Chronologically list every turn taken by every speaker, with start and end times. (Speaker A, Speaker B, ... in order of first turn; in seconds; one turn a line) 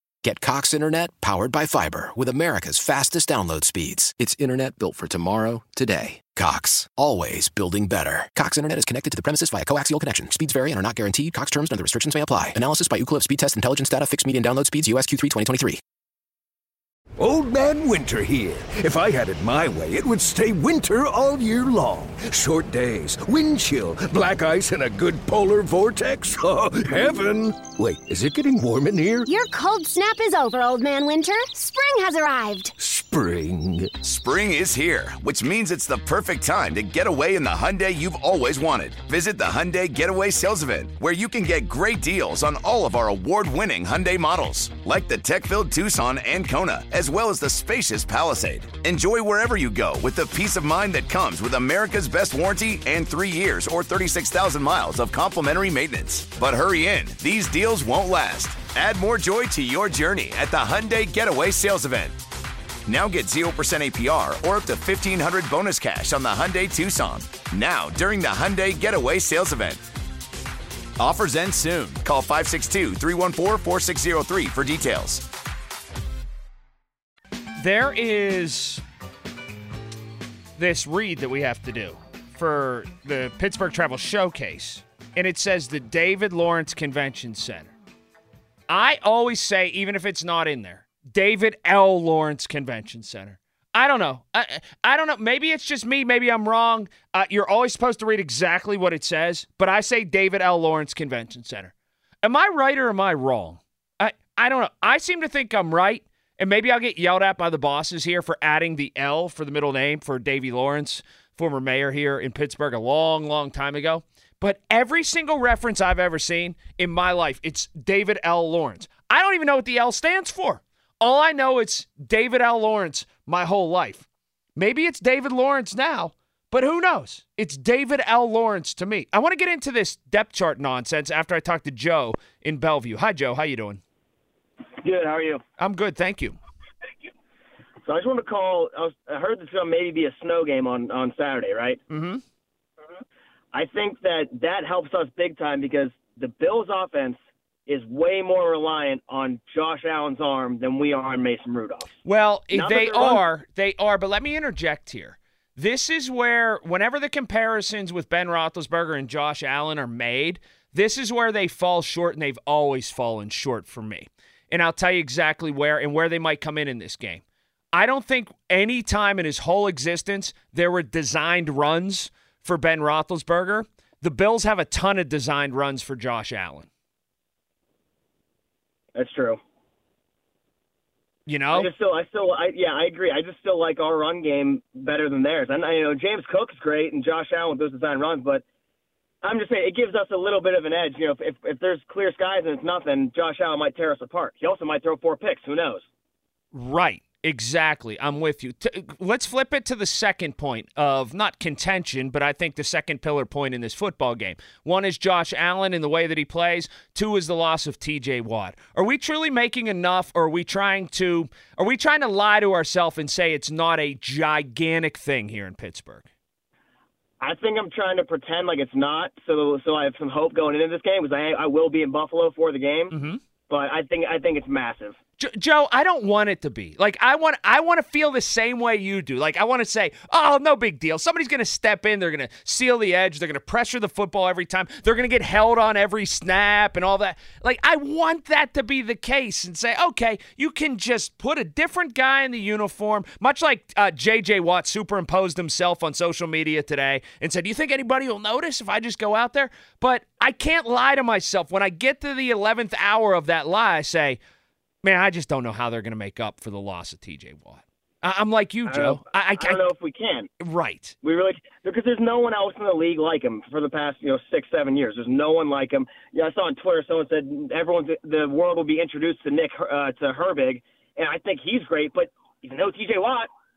Speaker A: 0.2-15.8
Speaker B: 17.2-29.3
Speaker C: 29.3-32.7
Speaker B: 32.8-33.9
Speaker D: 34.0-62.2
Speaker D: 62.9-69.8
Speaker D: 71.0-75.3
Speaker E: 77.6-78.8
Speaker E: 80.6-87.7
Speaker E: 88.7-124.0
Speaker E: 124.6-133.8
Speaker F: 134.8-135.4
Speaker E: 135.6-136.4
Speaker F: 137.8-141.8
Speaker E: 141.9-142.2
Speaker F: 143.5-151.9
Speaker E: 152.1-176.7
Speaker F: 152.5-153.2
Speaker F: 178.9-179.4
Speaker E: 181.3-181.7
Speaker F: 181.5-188.4
Speaker F: 189.2-195.8
Speaker E: 196.5-216.1
Speaker F: 217.2-222.9
Speaker E: 222.9-223.2
Speaker F: 223.5-225.0
Speaker E: 225.2-254.2
Speaker E: 254.8-259.6
Speaker F: 258.7-260.3
Speaker E: 260.4-261.0
Speaker F: 261.0-273.3